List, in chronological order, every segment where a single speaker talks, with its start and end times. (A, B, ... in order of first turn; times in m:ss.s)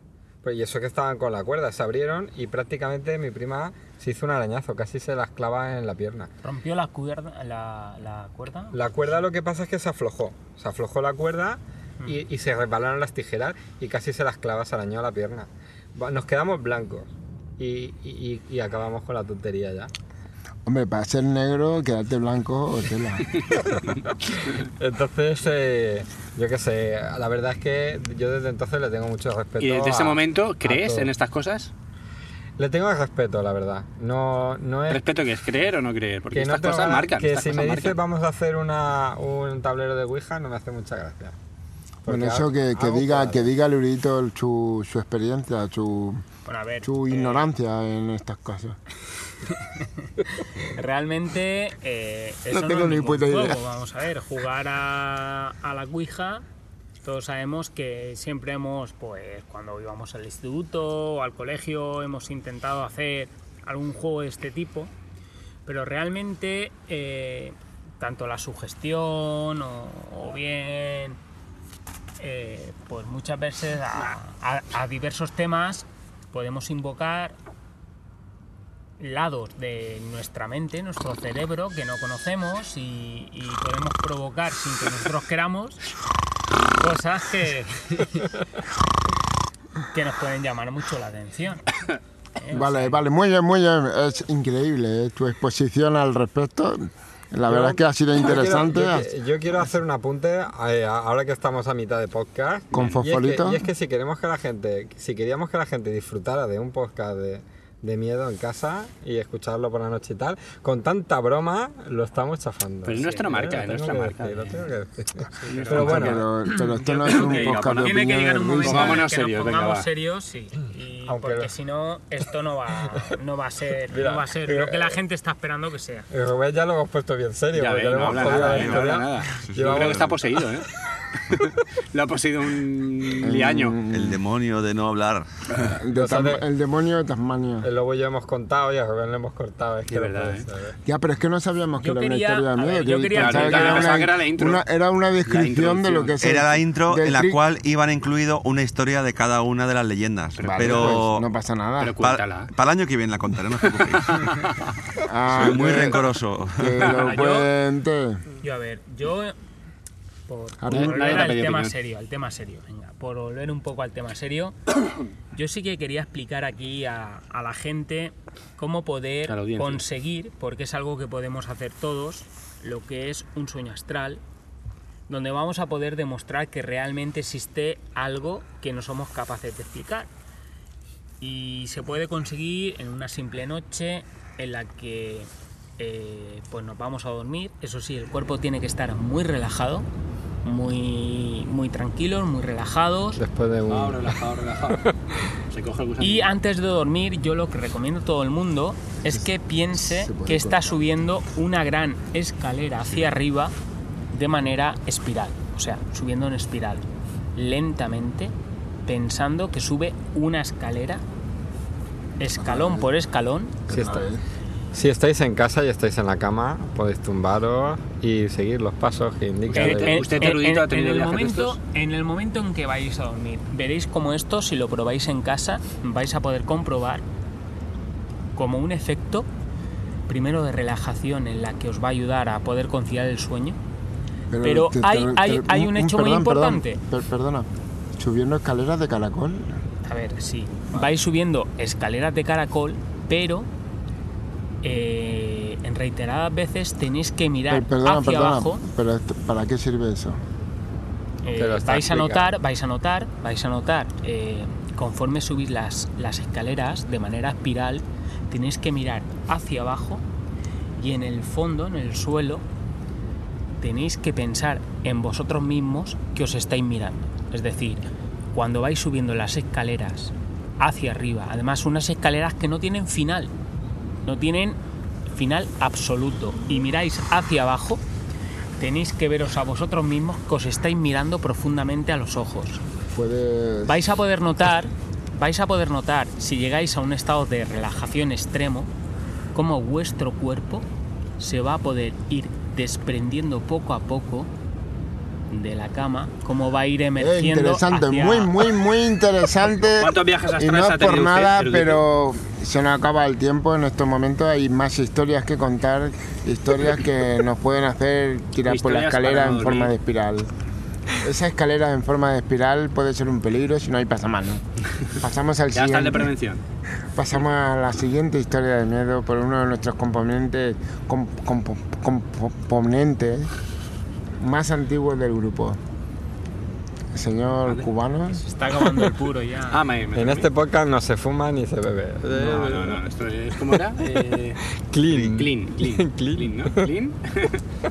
0:00.4-0:06.3 A
0:06.4-0:08.8 B
0:08.7-0:19.9 A
0:20.6-0:23.4 C
0:23.6-0:31.1 A
0:29.6-0:31.7 D
0:32.6-0:35.0 A
0:34.9-0:38.0 D
0:36.3-0:41.3 A
0:42.0-0:43.5 A
0:42.1-0:46.2 C
0:46.4-0:47.5 B
0:46.8-0:48.8 C
0:49.7-0:56.4 B
0:52.5-0:53.6 C
0:57.0-1:04.9 B
1:05.6-1:11.2 B
1:12.2-1:17.4 B
1:19.0-1:25.8 B
1:26.8-1:28.3 B
1:29.9-1:31.7 B
1:32.4-1:33.0 B
1:32.5-1:39.1 C
1:37.5-1:56.2 A
1:42.7-1:43.6 C
1:52.8-1:54.6 D
1:53.0-1:53.2 B
1:55.4-1:56.3 D
1:55.7-1:59.0 C
1:56.5-2:06.1 B
1:57.0-1:58.1 D
1:58.6-1:59.9 D
2:01.0-2:01.5 A
2:03.9-2:05.0 A
2:06.1-2:10.1 A
2:07.5-2:10.7 D
2:08.1-2:10.1 E
2:11.2-2:13.8 D
2:13.2-2:14.2 C
2:13.9-2:15.7 E
2:15.6-2:17.7 C
2:15.9-2:16.4 A
2:17.6-2:20.8 A
2:19.9-2:20.4 D
2:20.8-2:27.4 C
2:21.8-2:24.0 B
2:23.1-2:24.6 D
2:25.2-2:26.2 D
2:26.2-2:31.3 E
2:30.4-2:31.0 D
2:30.5-2:32.0 C
2:31.8-2:32.5 D
2:32.0-2:34.5 E
2:33.8-2:34.2 D
2:35.0-2:38.2 C
2:35.3-2:36.9 E
2:36.8-2:37.5 B
2:38.4-2:39.4 B
2:40.3-2:44.6 B
2:40.6-2:41.3 C
2:40.7-2:41.7 D
2:45.3-2:54.2 B
2:49.3-2:49.8 D
2:55.1-3:00.1 B
3:01.2-3:09.9 B
3:10.4-3:13.2 B
3:13.2-3:14.2 A
3:13.7-3:14.9 D
3:15.5-3:16.3 D
3:16.0-3:23.5 B
3:19.8-3:20.7 C
3:24.1-3:28.3 B
3:28.8-3:31.0 B
3:32.2-3:34.0 B
3:32.4-3:32.9 C
3:33.7-3:34.2 C
3:33.7-3:34.0 A
3:34.7-3:40.1 A
3:39.5-3:41.6 D
3:39.6-3:47.0 B
3:48.4-3:49.3 B
3:50.1-3:53.6 B
3:54.3-3:59.6 C
3:54.4-3:56.8 B
3:59.8-4:03.5 B
4:04.6-4:08.6 B
4:07.5-4:10.2 C
4:11.2-4:20.0 B
4:11.4-4:12.3 A
4:20.8-4:22.4 B
4:23.6-4:33.3 B
4:34.0-4:34.6 B
4:35.1-4:37.8 B
4:38.6-4:42.6 B
4:42.9-4:43.8 C
4:43.6-4:48.7 B
4:49.3-4:50.6 B
4:51.2-4:54.3 B
4:55.3-4:58.3 B
4:57.0-5:10.3 C
4:59.7-5:01.8 D
5:08.4-5:09.7 D
5:11.0-5:16.1 C
5:15.5-5:16.4 D
5:16.9-5:23.3 C
5:24.2-5:25.6 C
5:26.9-5:28.2 C
5:28.1-5:29.6 B
5:29.5-5:30.3 D
5:29.9-5:32.8 A
5:32.1-5:37.4 D
5:33.5-5:33.8 A
5:34.5-5:36.7 A